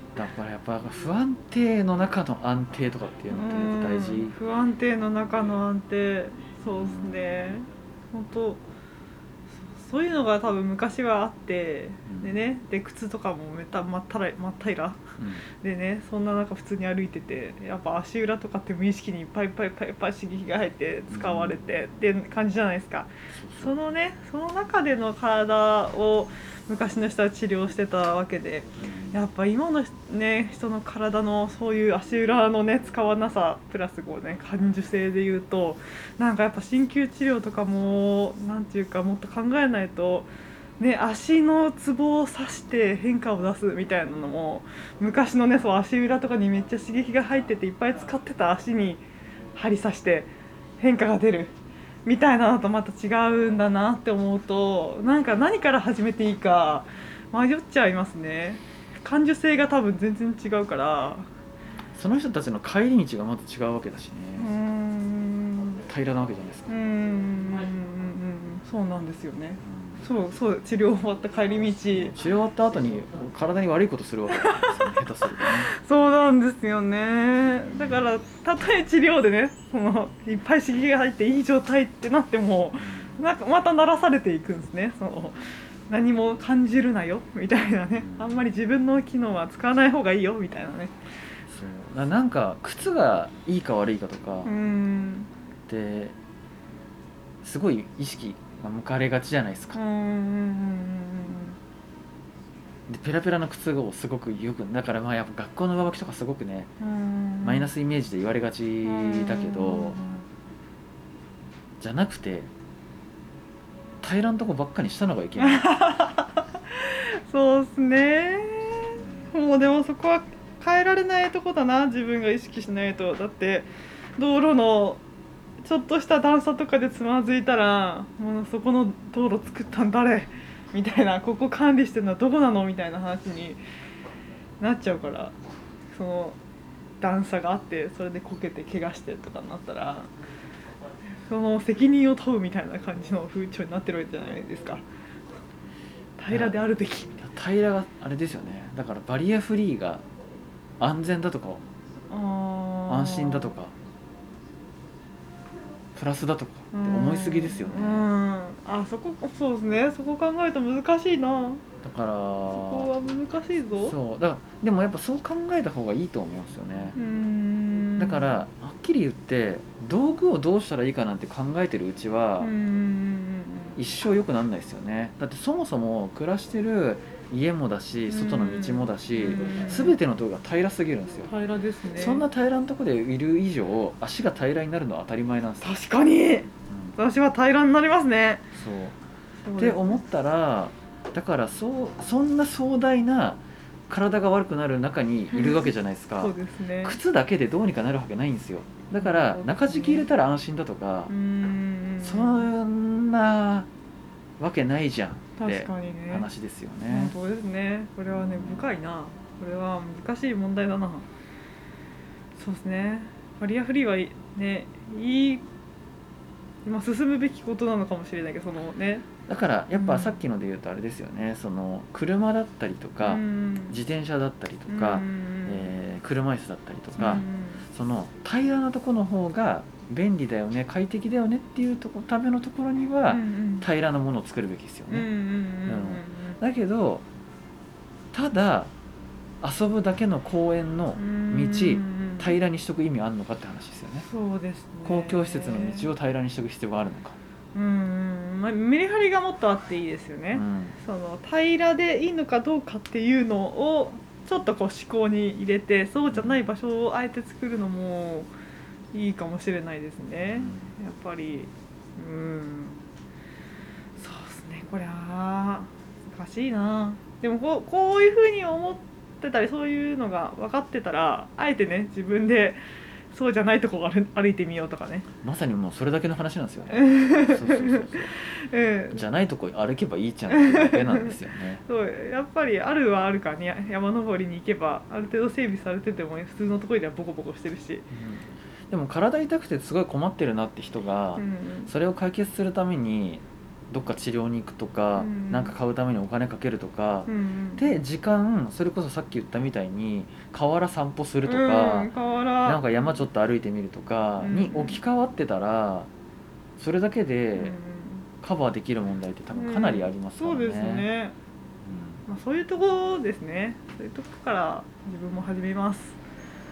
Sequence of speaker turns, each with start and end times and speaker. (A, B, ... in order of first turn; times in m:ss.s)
0:00.1-0:04.4 A
0:03.3-0:08.6 B
0:06.7-0:07.6 A
0:09.7-0:15.0 B
0:12.1-0:12.3 A
0:15.6-0:40.3 B
0:21.1-0:21.6 A
0:23.4-0:23.7 A
0:28.8-0:29.2 A
0:40.8-0:49.0 B
0:49.6-0:51.5 B
0:52.1-1:01.3 B
1:01.9-1:04.5 A
1:04.4-1:05.8 B
1:05.9-1:06.7 A
1:06.7-1:12.2 B
1:09.6-1:10.0 A
1:12.0-1:15.7 A
1:14.3-1:14.8 B
1:15.4-1:30.9 B
1:22.8-1:23.2 A
1:28.0-1:28.4 A
1:31.5-1:34.5 A
1:34.4-1:35.3 B
1:35.7-1:36.2 A
1:37.4-1:39.8 A
1:39.7-1:41.6 B
1:42.9-1:46.7 A
1:46.8-1:47.7 B
1:47.4-1:50.0 A
1:48.8-1:50.2 B
1:51.8-1:52.5 A
1:54.0-1:55.7 A
1:55.4-2:05.0 B
1:59.0-1:59.3 A
2:05.6-2:13.6 B
2:14.6-2:15.3 B
2:15.9-2:16.4 B
2:17.0-2:20.1 B
2:21.2-2:24.8 B
2:26.2-2:27.2 B
2:26.3-2:26.6 A
2:27.2-2:30.0 A
2:30.8-2:31.6 A
2:32.1-2:33.5 B
2:32.9-2:33.7 A
2:35.9-2:38.1 A
2:36.7-2:41.6 B
2:41.8-2:42.9 A
2:42.6-2:44.0 B
2:43.8-2:47.0 A
2:46.9-2:48.3 B
2:48.0-2:52.5 A
2:52.4-2:53.8 B
2:53.8-3:01.3 A
2:58.1-3:00.0 B
3:01.3-3:02.2 B
3:02.0-3:05.8 A
3:05.6-3:08.4 B
3:06.7-3:06.9 A
3:08.5-3:09.0 A
3:09.4-3:10.0 B
3:09.6-3:21.1 A
3:15.3-3:17.0 B
3:19.0-3:20.1 B
3:21.1-3:22.5 B
3:22.0-3:23.7 A
3:24.4-3:27.1 A
3:25.4-3:26.3 B
3:26.9-3:31.1 B
3:28.1-3:28.7 A
3:32.4-3:35.4 B
3:36.6-3:39.1 B
3:39.3-3:55.1 A
3:39.7-3:40.2 B
3:43.0-3:43.8 B
3:44.7-3:45.7 B
3:47.0-3:47.6 B
3:53.1-3:53.7 B
3:54.9-3:56.4 B
3:55.6-3:57.0 A
3:58.1-3:58.7 A
3:59.4-4:04.1 A
4:01.0-4:02.4 B
4:04.0-4:05.9 B
4:04.8-4:07.2 A
4:07.6-4:18.3 B
4:10.3-4:10.8 A
4:16.1-4:16.4 A
4:18.9-4:22.8 B
4:20.3-4:20.7 A
4:24.0-4:32.6 B
4:33.1-4:35.1 B
4:35.2-4:38.1 A
4:36.7-4:39.0 B
4:38.9-4:41.6 A
4:40.3-4:47.9 B
4:47.9-5:05.9 A
4:51.2-4:51.7 B
4:55.0-4:55.6 B
4:57.1-4:57.6 B
5:01.2-5:02.7 B
5:04.2-5:04.8 B
5:06.6-5:07.6 A
5:07.4-5:08.1 B
5:08.2-5:10.9 A
5:09.3-5:11.2 B
5:11.6-5:12.0 A
5:12.1-5:16.0 B